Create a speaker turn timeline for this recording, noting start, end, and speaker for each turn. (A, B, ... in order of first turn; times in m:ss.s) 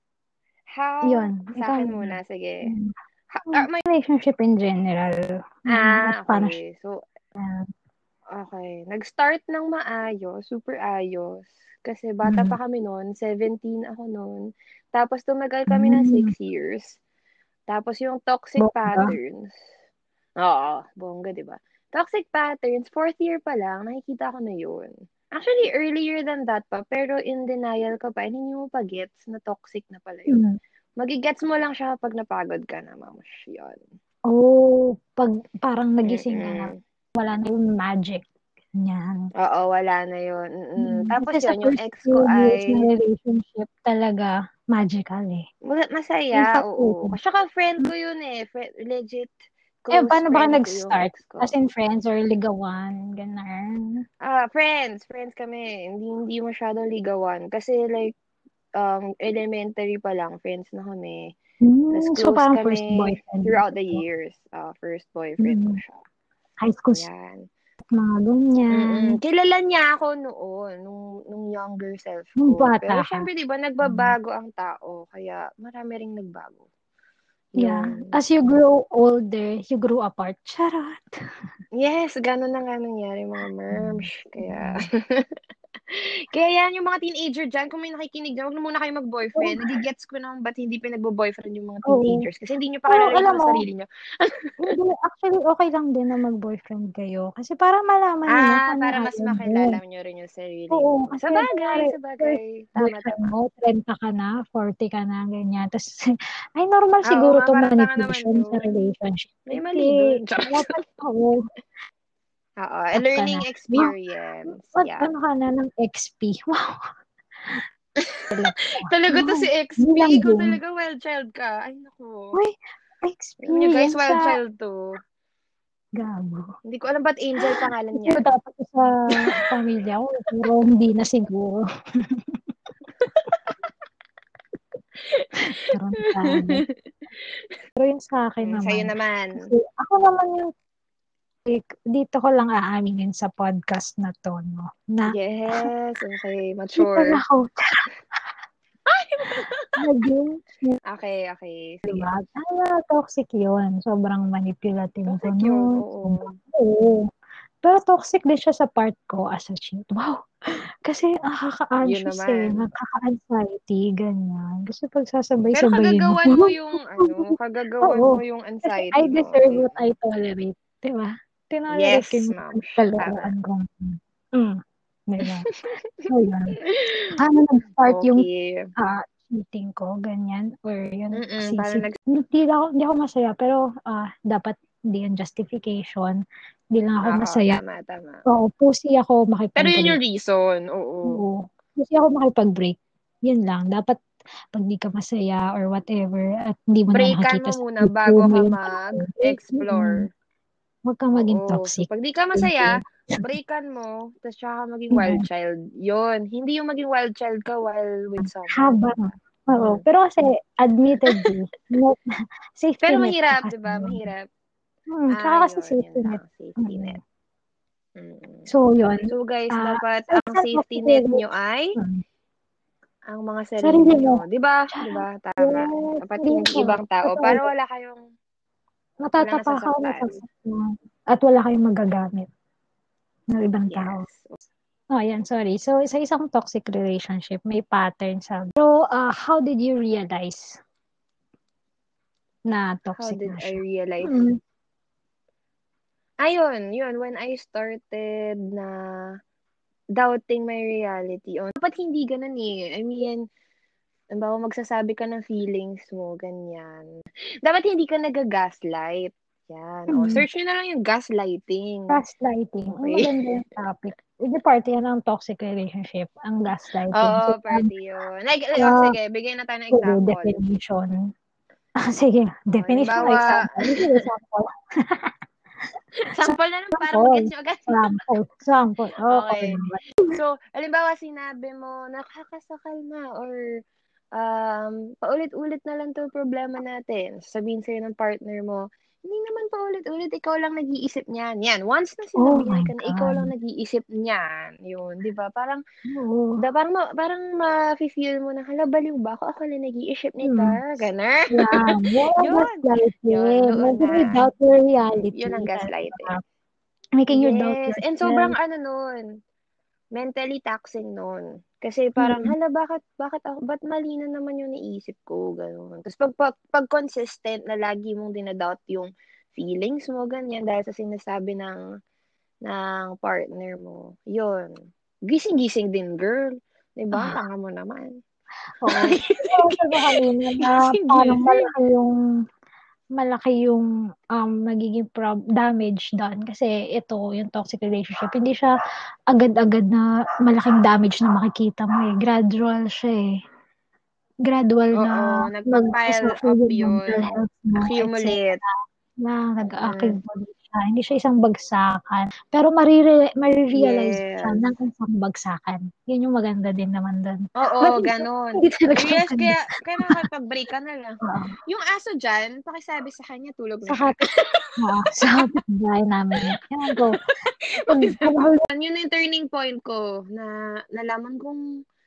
0:00.7-0:02.7 A
0:01.0-0:02.9 B
0:03.3-0:03.8 A
0:03.5-0:06.6 B
0:05.7-0:07.0 A
0:07.4-0:07.7 B
0:08.3-0:17.0 A
0:12.2-0:12.6 B
0:15.7-0:16.3 B
0:17.7-0:19.6 A
0:18.6-0:19.1 B
0:20.4-0:30.4 A
0:30.3-0:30.6 B
0:31.0-0:33.8 A
0:34.3-0:38.2 B
0:36.0-0:36.8 A
0:38.8-0:39.3 B
0:39.4-0:42.9 A
0:40.8-0:45.5 B
0:45.6-0:51.5 A
0:46.3-0:47.2 B
0:49.9-0:54.0 B
0:54.2-0:58.1 A
0:58.8-1:01.3 A
1:01.6-1:04.0 B
1:01.9-1:06.0 A
1:05.4-1:05.8 B
1:06.6-1:07.0 B
1:06.9-1:07.4 A
1:07.9-1:09.2 B
1:08.7-1:16.6 A
1:12.4-1:13.3 B
1:13.8-1:14.1 B
1:17.6-1:18.1 A
1:17.6-1:21.0 B
1:21.8-1:25.3 A
1:23.7-1:24.8 B
1:25.9-1:34.8 A
1:29.3-1:29.8 B
1:31.8-1:32.2 B
1:32.9-1:33.6 B
1:34.6-1:39.8 B
1:38.3-1:43.3 A
1:40.7-1:51.4 B
1:47.0-1:48.8 A
1:49.5-1:50.8 A
1:52.6-1:55.1 A
1:53.0-1:53.9 B
1:54.7-1:56.8 B
1:58.0-2:02.4 A
1:58.3-2:00.6 B
2:02.3-2:04.3 B
2:03.4-2:04.9 A
2:06.0-2:06.5 B
2:06.6-2:08.2 A
2:07.4-2:12.4 B
2:13.0-2:13.5 A
2:15.0-2:16.7 A
2:15.4-2:16.6 B
2:17.2-2:17.5 A
2:17.8-2:20.5 B
2:18.4-2:19.4 A
2:21.4-2:25.7 B
2:25.1-2:27.2 A
2:26.8-2:27.9 B
2:28.9-2:29.8 A
2:29.8-2:30.8 B
2:30.8-2:32.1 A
2:31.9-2:37.1 B
2:35.1-2:36.4 A
2:37.6-2:40.2 B
2:40.8-2:55.5 B
2:41.8-2:42.6 A
2:45.5-2:49.8 A
2:51.7-2:53.3 A
2:55.2-2:56.1 A
2:56.0-2:56.6 B
2:56.6-2:57.2 A
2:57.2-2:58.2 B
2:57.8-2:58.7 A
2:58.8-3:06.2 B
3:01.1-3:02.0 A
3:06.7-3:07.6 B
3:07.0-3:08.2 A
3:08.3-3:10.0 B
3:09.6-3:11.2 A
3:11.0-3:14.0 B
3:14.5-3:20.0 B
3:16.9-3:20.1 A
3:20.8-3:23.2 B
3:21.2-3:29.8 A
3:24.9-3:25.2 B
3:28.2-3:32.0 B
3:32.6-3:34.1 B
3:32.8-3:34.2 A
3:34.9-3:37.0 B
3:35.1-3:37.0 A
3:38.0-3:38.5 A
3:38.5-3:41.2 B
3:39.1-3:41.7 A
3:41.8-3:42.0 B
3:43.1-3:48.1 A
3:43.6-3:47.5 B
3:49.0-3:52.3 B
3:49.2-3:50.2 A
3:53.3-3:54.0 B
3:53.7-3:54.4 A
3:54.9-4:00.6 B
4:02.5-4:04.4 B
4:03.0-4:04.2 A
4:06.2-4:09.1 A
4:10.0-4:13.2 A
4:14.1-4:16.9 A
4:17.4-4:22.0 A
4:19.9-4:20.2 B
4:21.9-4:27.7 B
4:22.8-4:23.2 A
4:26.9-4:30.4 A
4:28.5-4:28.9 B
4:29.7-4:31.1 B
4:31.8-4:35.1 B
4:32.5-4:34.0 A
4:36.1-4:37.8 A
4:36.2-4:40.2 B
4:39.1-4:43.5 A
4:44.1-4:55.6 A
4:52.2-4:53.3 B
4:55.9-4:56.4 B
4:56.4-5:04.3 A
5:00.2-5:00.6 B
5:01.3-5:06.2 B
5:05.1-5:06.1 A
5:07.0-5:08.3 B
5:07.1-5:09.1 A
5:09.9-5:21.6 A
5:12.0-5:12.3 B
5:22.4-5:28.0 A
5:26.9-5:27.2 B
5:28.6-5:32.0 B
5:28.7-5:31.5 A
5:33.0-5:38.5 B
5:39.1-5:43.1 B
5:44.2-6:00.0 B
5:44.8-5:48.4 A
5:49.6-5:50.0 A
5:53.5-5:54.5 A
5:57.4-6:04.5 A
6:01.0-6:01.3 B
6:03.7-6:07.0 B
6:06.7-6:11.4 A
6:07.7-6:08.4 B